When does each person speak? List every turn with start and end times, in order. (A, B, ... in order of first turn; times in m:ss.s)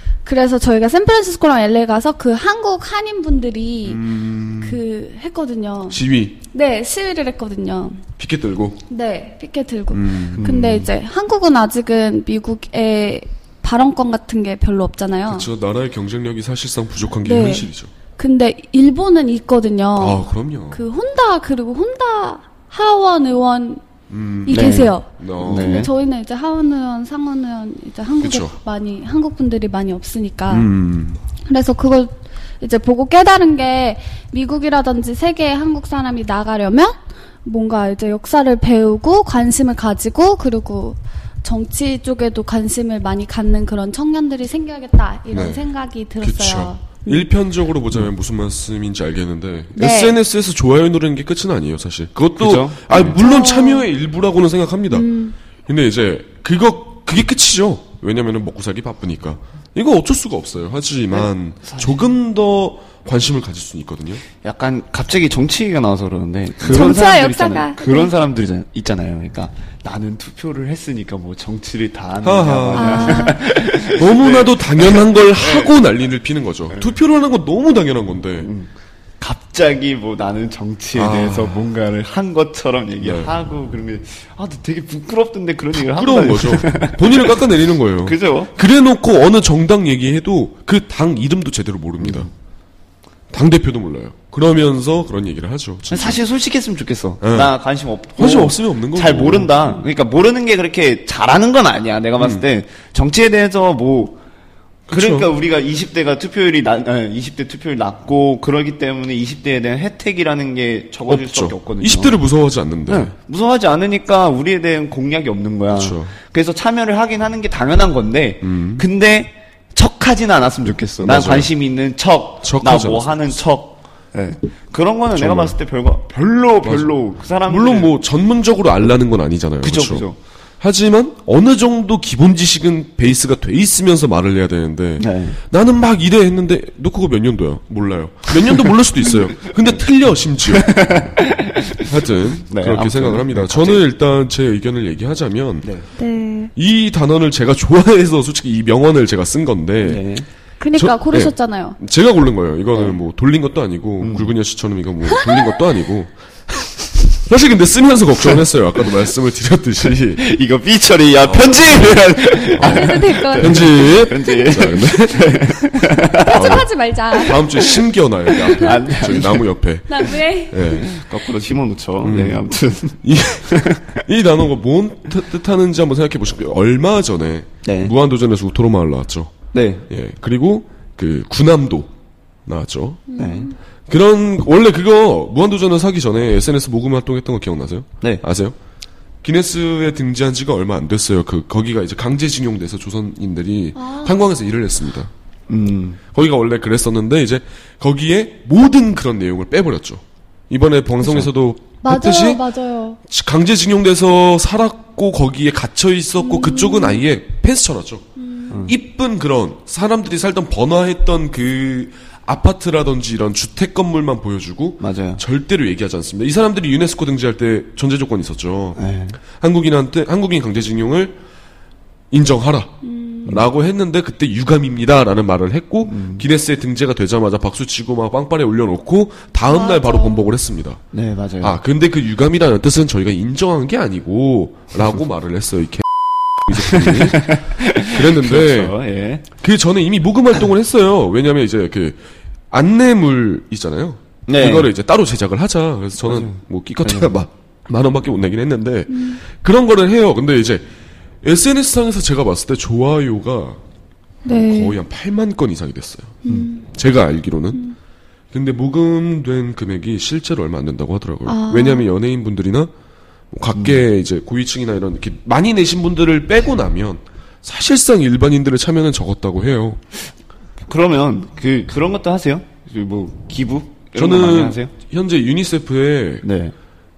0:00.2-0:08.0 A
0:03.8-0:04.8 B
0:05.9-0:06.4 B
0:08.2-0:08.8 B
0:08.9-0:15.5 A
0:09.9-0:10.5 B
0:10.4-0:10.9 C
0:15.3-0:17.9 B
0:17.2-0:23.8 A
0:20.0-0:20.8 B
0:24.1-0:25.9 B
0:24.4-0:30.7 A
0:24.5-0:25.9 C
0:28.2-0:28.5 B
0:30.5-0:31.2 B
0:31.4-0:47.3 A
0:45.3-0:45.6 B
0:46.2-0:55.1 B
0:49.8-0:50.2 A
0:52.4-0:53.2 C
0:53.1-0:53.9 A
0:54.9-0:55.3 A
0:55.7-1:04.2 B
1:01.1-1:02.1 C
1:04.4-1:15.7 C
1:06.6-1:07.0 B
1:06.6-1:08.1 A
1:12.2-1:13.4 B
1:12.7-1:13.4 A
1:13.9-1:18.5 B
1:18.4-1:27.4 C
1:20.9-1:21.6 B
1:23.0-1:23.3 B
1:25.7-1:32.3 B
1:28.0-1:28.5 C
1:32.0-1:32.3 C
1:33.3-1:36.2 B
1:35.9-1:44.2 C
1:37.2-1:37.5 B
1:38.2-1:39.6 B
1:42.2-1:42.4 B
1:44.9-1:45.3 B
1:44.9-1:52.2 C
1:51.1-1:53.1 B
1:52.9-2:07.9 C
1:55.7-1:56.1 B
1:58.4-1:58.8 B
2:01.0-2:01.5 B
2:02.4-2:03.4 B
2:05.1-2:05.6 B
2:06.6-2:06.9 B
2:07.4-2:10.0 B
2:09.6-2:10.2 C
2:10.6-2:20.9 B
2:15.0-2:15.4 C
2:20.5-2:21.9 C
2:21.9-2:25.7 B
2:22.4-2:23.8 C
2:25.6-2:25.9 C
2:26.0-2:26.5 A
2:26.6-2:30.0 B
2:29.8-2:30.2 C
2:30.6-2:31.8 A
2:30.8-2:40.2 B
2:34.0-2:34.3 C
2:35.1-2:35.3 A
2:40.1-2:46.6 C
2:41.2-2:45.3 B
2:42.6-2:44.0 A
2:46.2-2:48.8 A
2:46.3-2:50.9 B
2:48.5-2:49.5 C
2:49.9-2:50.8 A
2:50.7-2:54.0 C
2:52.0-2:52.4 B
2:53.0-2:59.3 B
2:57.6-2:57.9 C
2:59.5-2:59.8 C
2:59.9-3:01.9 B
3:02.4-3:03.0 B
3:03.1-3:03.5 A
3:03.2-3:03.5 C
3:03.9-3:08.6 B
3:09.2-3:15.1 B
3:13.8-3:14.2 A
3:15.5-3:16.0 C
3:16.1-3:22.4 B
3:21.0-3:21.3 C
3:21.8-3:23.0 A
3:23.1-3:28.0 B
3:26.2-3:27.0 A
3:28.2-3:28.6 A
3:28.5-3:28.7 C
3:28.6-3:38.8 B
3:34.8-3:35.2 C
3:38.8-3:39.2 C
3:39.3-3:41.2 B
3:42.1-3:50.8 B
3:42.8-3:43.3 A
3:45.8-3:46.2 C
3:49.5-3:50.3 A
3:50.9-3:51.6 C
3:51.4-3:58.7 B
3:56.5-3:59.2 C
3:59.4-4:02.0 B
4:02.5-4:10.7 B
4:04.3-4:04.7 C
4:06.0-4:07.1 C
4:08.9-4:09.2 A
4:11.2-4:13.6 B
4:14.2-4:14.8 A
4:14.2-4:16.2 B
4:16.2-4:16.7 A
4:16.7-4:17.6 B
4:18.3-4:22.7 B
4:21.2-4:21.8 A
4:23.3-4:29.8 B
4:23.5-4:23.8 C
4:30.7-4:34.7 C
4:33.9-4:36.2 B
4:36.2-4:36.5 C